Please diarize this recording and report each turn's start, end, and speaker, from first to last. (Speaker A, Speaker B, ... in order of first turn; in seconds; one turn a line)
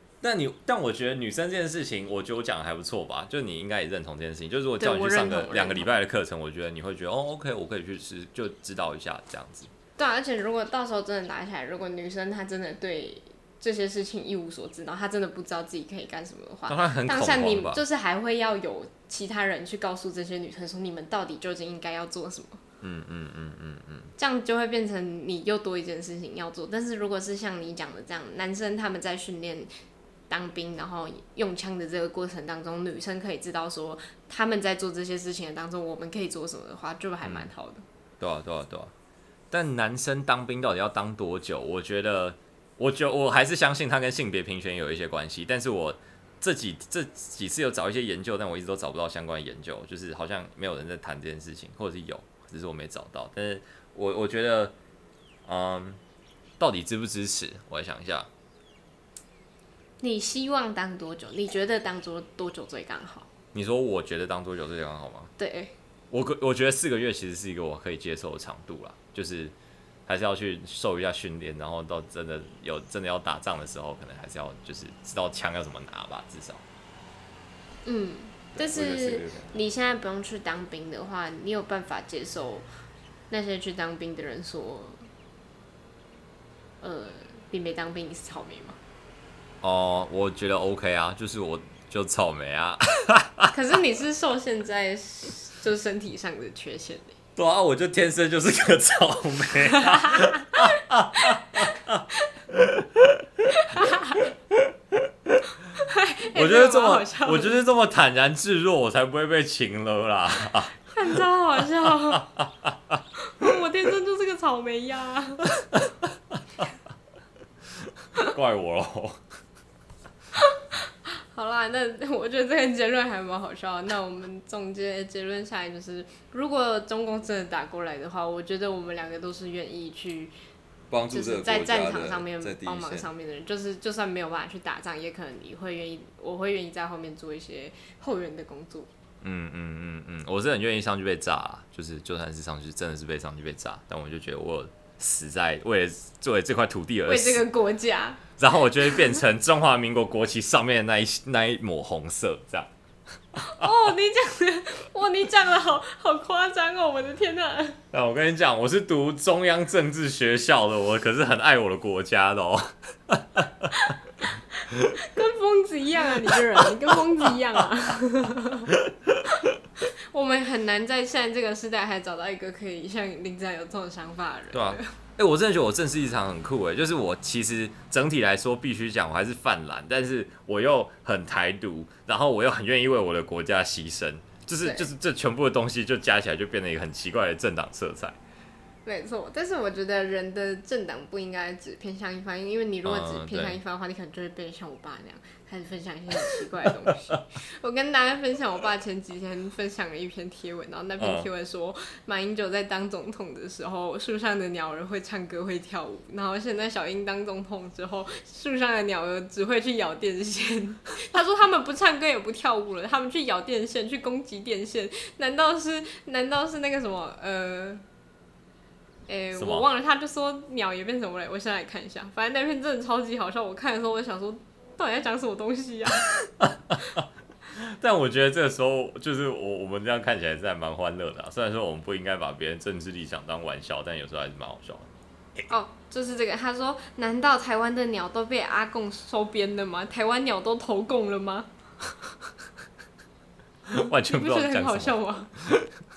Speaker A: 0.2-9.7
Speaker B: 4.8-5.9
Speaker B: 10.0-22.6
Speaker A: 16.7-17.8
Speaker A: 22.8-24.1
Speaker B: 24.2-29.7
Speaker B: 30.3-37.9
Speaker A: 37.2-37.5
Speaker A: 38.2-38.9
Speaker A: 39.5-54.8
Speaker A: 55.5-56.0
Speaker A: 56.6-58.3
Speaker B: 60.0-63.3
Speaker A: 63.5-65.3
Speaker B: 65.4-65.7
Speaker A: 66.1-69.5
Speaker A: 70.1-76.6
Speaker B: 77.8-82.7
Speaker A: 78.6-79.5
Speaker B: 83.3-85.1
Speaker B: 86.8-88.8
Speaker A: 89.6-93.5
Speaker B: 93.5-97.2
Speaker A: 97.4-103.9
Speaker B: 99.8-101.5
Speaker B: 103.5-104.3
Speaker A: 104.5-105.5
Speaker B: 105.7-107.6
Speaker A: 106.3-111.2
Speaker B: 110.9-112.3
Speaker A: 112.1-113.0
Speaker B: 113.2-115.5
Speaker A: 115.6-116.7
Speaker A: 118.2-119.2
Speaker B: 120.4-130.3
Speaker A: 130.9-133.1
Speaker B: 131.1-138.9
Speaker A: 139.2-147.4
Speaker B: 147.1-148.2
Speaker A: 148.4-152.7
Speaker A: 153.3-153.7
Speaker B: 153.4-157.8
Speaker A: 157.9-163.9
Speaker A: 164.7-165.0
Speaker B: 165.0-168.7
Speaker A: 168.7-169.6
Speaker B: 169.8-174.9
Speaker A: 174.5-188.2
Speaker B: 184.6-184.9
Speaker B: 188.9-217.8
Speaker A: 192.8-193.6
Speaker A: 201.0-201.3
Speaker B: 219.1-226.1
Speaker A: 219.3-219.6
Speaker A: 226.2-234.9
Speaker B: 235.5-241.5
Speaker A: 243.7-245.7
Speaker B: 243.7-245.3